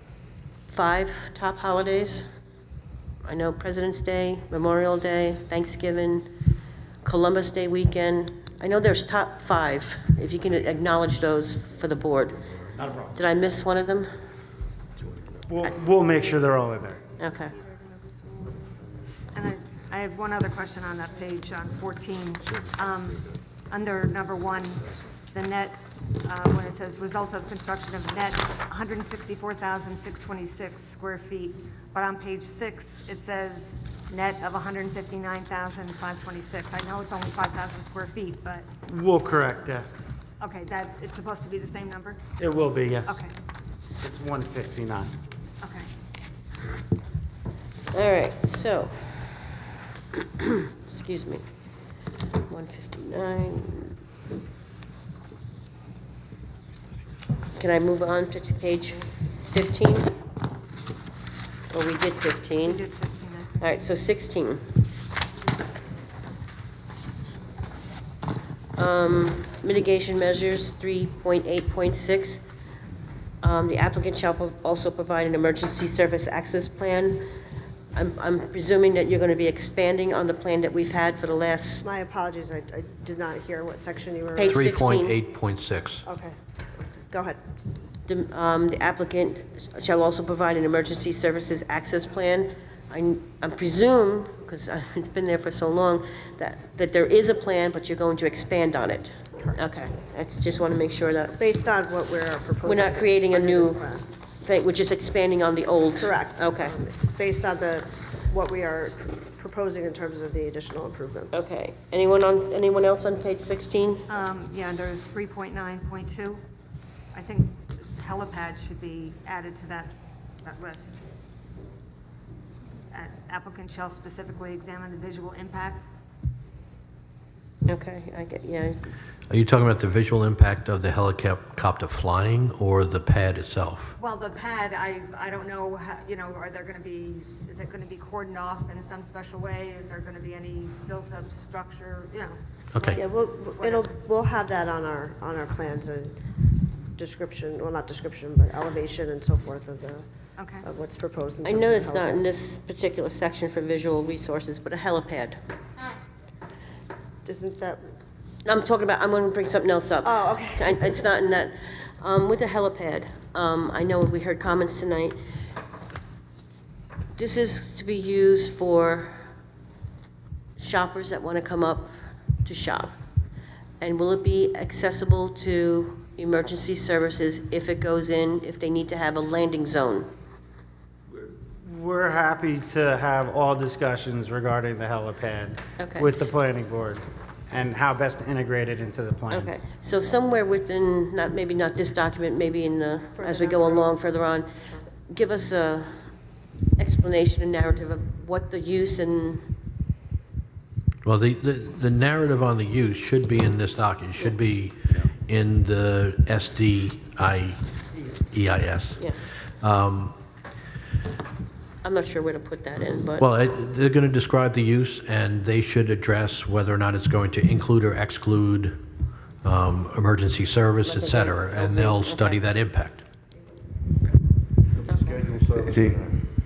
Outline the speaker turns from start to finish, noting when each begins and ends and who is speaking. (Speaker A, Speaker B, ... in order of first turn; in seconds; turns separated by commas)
Speaker A: 0.7-2.3, Speaker A: 3.2-6.3, Speaker A: 7.0-12.5, Speaker A: 13.1-14.1, Speaker B: 15.0-15.5, Speaker C: 15.7-17.0, Speaker A: 17.2-17.6, Speaker D: 17.6-18.7, Speaker D: 19.3-38.7, Speaker C: 38.9-39.9, Speaker D: 40.4-42.2, Speaker C: 42.5-43.1, Speaker D: 43.0-43.3, Speaker C: 44.0-45.1, Speaker D: 45.6-45.9, Speaker A: 47.9-48.9, Speaker A: 50.2-51.4, Speaker A: 52.5-54.0, Speaker A: 57.6-60.1, Speaker A: 61.7-62.8, Speaker D: 62.6-63.7, Speaker A: 63.6-64.6, Speaker A: 68.8-72.4, Speaker A: 73.4-77.2, Speaker A: 77.9-81.9, Speaker E: 81.8-84.7, Speaker A: 84.4-85.2, Speaker F: 84.5-86.0, Speaker E: 86.1-86.4, Speaker E: 87.1-87.6, Speaker A: 88.1-101.4, Speaker E: 101.4-104.0, Speaker A: 102.6-103.8, Speaker A: 104.4-106.8, Speaker E: 106.0-111.4, Speaker A: 111.3-114.0, Speaker D: 114.1-116.4, Speaker D: 117.1-121.0, Speaker D: 122.9-125.8, Speaker A: 127.7-128.8, Speaker F: 129.3-133.9, Speaker D: 134.0-143.9, Speaker F: 142.7-143.0, Speaker E: 142.9-146.2, Speaker E: 147.0-150.1, Speaker D: 150.4-150.7, Speaker E: 150.6-152.2, Speaker A: 151.4-155.4, Speaker E: 157.2-157.8, Speaker A: 158.4-165.2, Speaker E: 160.0-161.0, Speaker A: 167.2-169.2, Speaker A: 170.6-171.9, Speaker A: 172.4-172.9, Speaker A: 173.8-180.1, Speaker C: 181.6-189.4, Speaker A: 185.8-186.1, Speaker A: 189.3-194.5, Speaker E: 193.2-194.0, Speaker A: 195.1-195.9, Speaker A: 196.8-199.4, Speaker F: 201.1-207.6, Speaker F: 208.3-210.1, Speaker A: 211.8-213.3, Speaker F: 213.2-218.8, Speaker F: 219.4-223.0, Speaker A: 220.8-222.4, Speaker B: 224.8-226.2